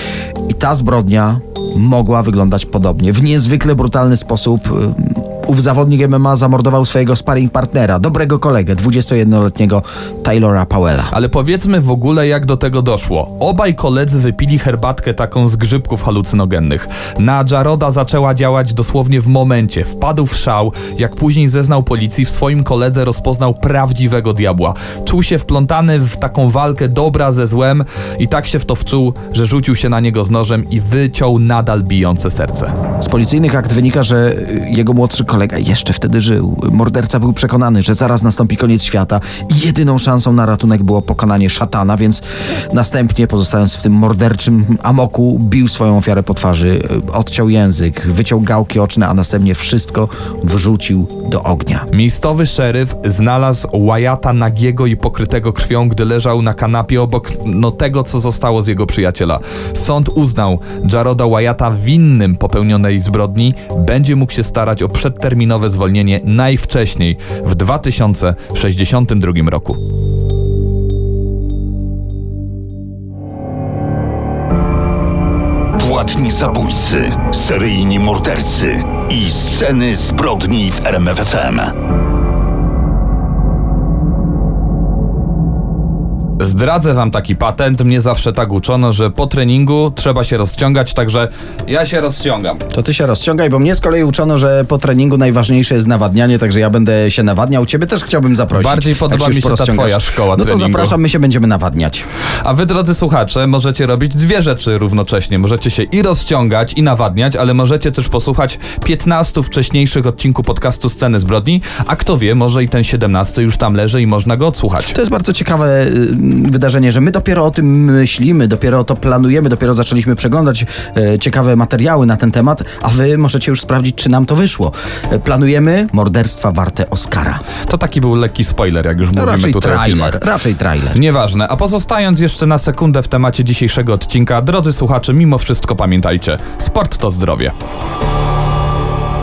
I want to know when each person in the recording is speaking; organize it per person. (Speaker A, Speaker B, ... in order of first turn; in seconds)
Speaker A: 0.5-11.1, 33.0-51.9, 92.7-102.0, 114.9-127.4, 129.1-131.0
Speaker B: 11.1-32.7, 51.9-69.8, 86.4-92.6, 98.5-101.0, 102.4-115.0, 127.7-130.2, 130.9-137.5
Speaker C: 75.8-81.7